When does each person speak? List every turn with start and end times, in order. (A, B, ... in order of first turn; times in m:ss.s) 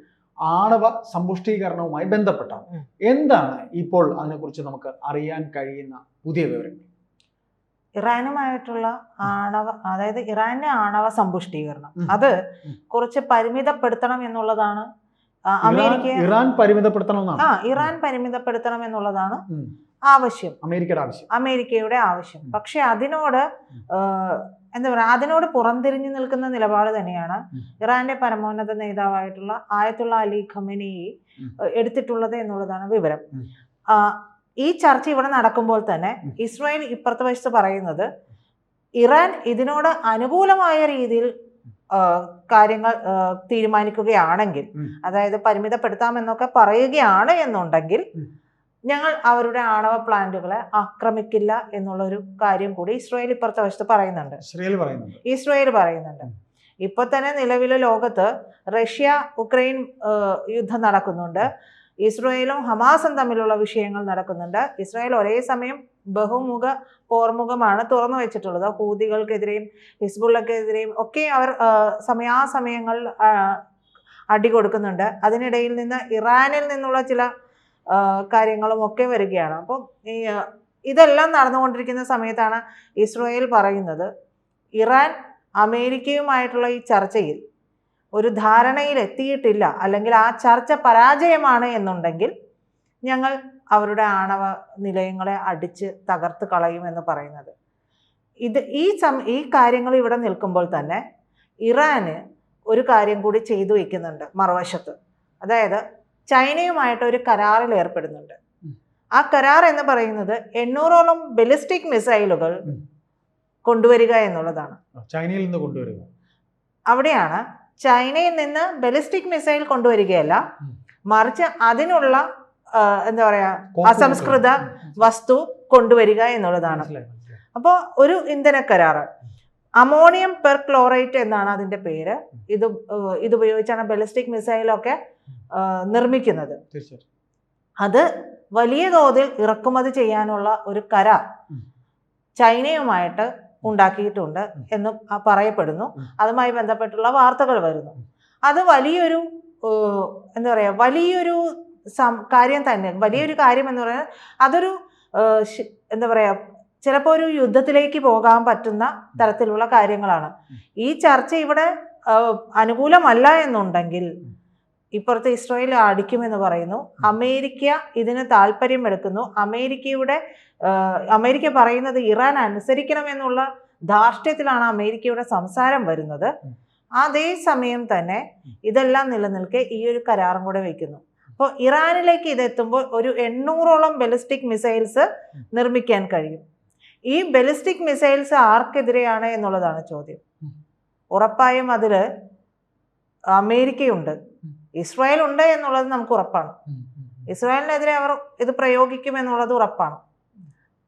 0:00.5-0:06.9 A
0:08.0-0:12.4 B
0:12.9-0:14.9 B
0:15.5-0:16.3 B
0:15.6-0:17.5 A
0:17.4-0:19.4 B
0:20.1-0:20.6 B
0:20.6-0:21.3 A
0:21.3-0:31.1 B
0:31.6-0:33.3 B
0:33.9-0:38.1 B
0:39.0-0:41.3 B
0:41.9-0:48.0 B
0:48.9-0:54.4 B
0:54.4-0:55.2 A
0:55.2-0:56.3 B
0:56.8-1:13.6 B
1:14.3-1:17.3 B
1:17.9-1:24.1 B
1:24.8-1:27.4 B
1:28.2-1:32.3 B
1:33.1-1:37.5 B
1:38.4-1:41.0 B
1:41.6-1:42.2 B
1:42.7-1:48.4 B
1:49.2-1:52.6 B
1:53.6-1:54.8 B
1:55.0-1:56.1 A
1:56.9-2:00.4 B
2:01.1-2:06.9 B
2:03.7-2:04.8 A
2:06.7-2:07.4 A
2:07.5-2:09.1 B
2:09.8-2:15.0 B
2:15.5-2:16.6 B
2:16.7-2:17.0 A
2:17.8-2:21.2 B
2:22.4-2:31.4 B
2:32.0-2:44.1 B
2:45.0-2:56.3 B
2:57.0-3:06.4 B
3:07.1-3:10.2 B
3:11.1-3:12.0 B
3:13.3-3:14.2 B
3:14.8-3:16.5 B
3:16.8-3:17.2 A
3:17.3-3:20.0 B